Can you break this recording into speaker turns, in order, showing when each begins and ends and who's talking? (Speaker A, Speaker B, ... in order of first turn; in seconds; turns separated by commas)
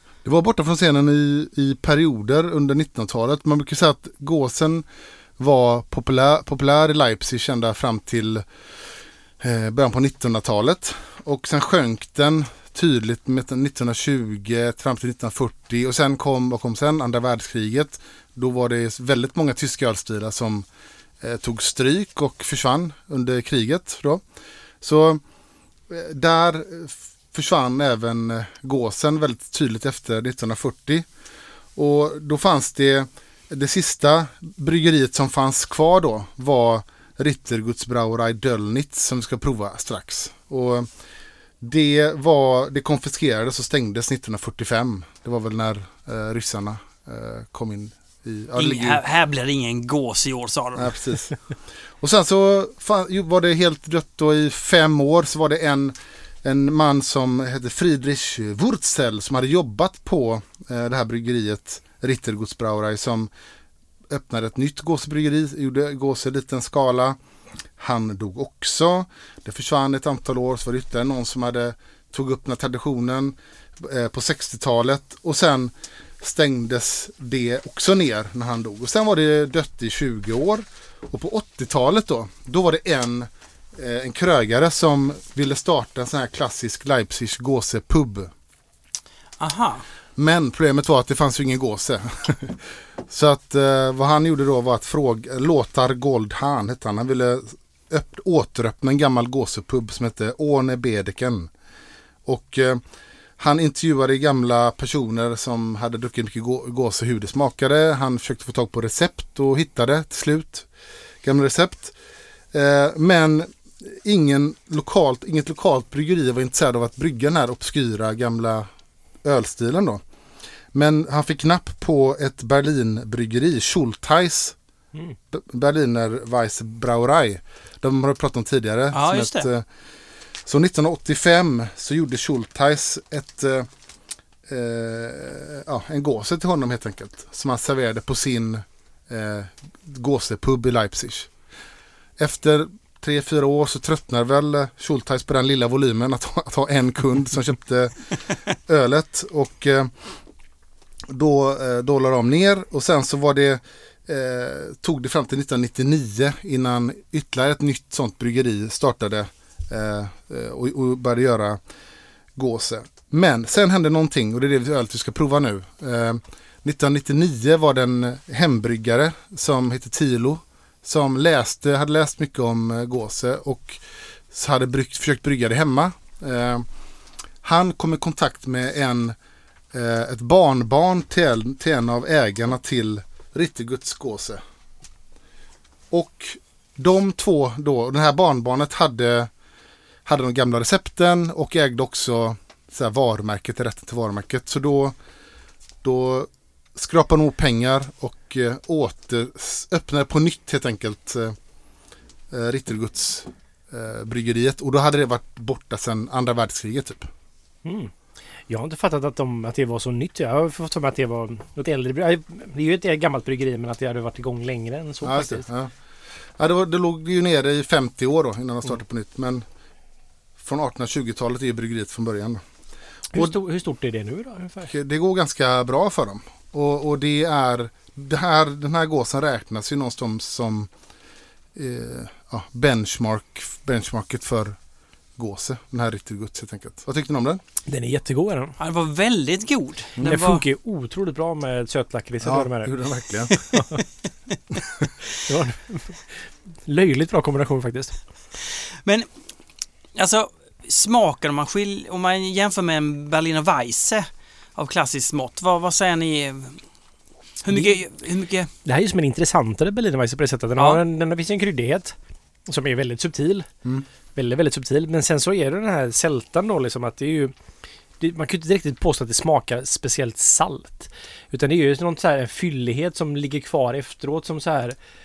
Speaker A: 0.2-4.8, Speaker A: 5.4-8.4, Speaker A: 9.4-20.7, Speaker A: 21.2-24.2, Speaker A: 24.8-25.2, Speaker A: 25.9-31.1, Speaker A: 31.8-40.9, Speaker A: 41.6-49.0, Speaker B: 48.5-51.0, Speaker A: 50.8-51.3, Speaker A: 52.0-63.3, Speaker A: 64.1-67.2, Speaker A: 67.8-88.3, Speaker B: 89.4-89.8, Speaker A: 90.2-101.5, Speaker A: 102.2-102.8, Speaker A: 103.4-110.7, Speaker A: 111.2-111.9, Speaker A: 112.5-118.7, Speaker A: 119.2-120.0, Speaker A: 120.7-124.5, Speaker A: 125.3-129.6, Speaker B: 128.9-129.5, Speaker A: 130.4-133.7, Speaker A: 134.5-141.3, Speaker A: 142.2-147.9, Speaker A: 148.7-149.9, Speaker A: 151.1-161.6, Speaker A: 162.3-176.6, Speaker A: 177.4-179.2, Speaker A: 179.7-184.4, Speaker A: 185.9-189.3, Speaker A: 190.0-194.9, Speaker A: 195.8-201.3, Speaker A: 202.3-207.1, Speaker C: 207.6-207.9, Speaker C: 208.5-215.5, Speaker A: 215.0-215.7, Speaker A: 216.4-219.4, Speaker A: 220.4-222.4, Speaker C: 223.1-224.7, Speaker A: 224.7-230.7, Speaker A: 231.5-234.6, Speaker A: 235.2-237.4, Speaker C: 237.7-238.5, Speaker B: 238.6-240.4, Speaker C: 240.0-242.7, Speaker A: 242.2-243.3, Speaker B: 243.5-243.8, Speaker C: 245.2-248.0, Speaker B: 249.9-256.6, Speaker B: 257.4-258.5, Speaker C: 258.6-261.9, Speaker C: 262.5-263.5, Speaker C: 264.1-267.3, Speaker C: 268.0-274.8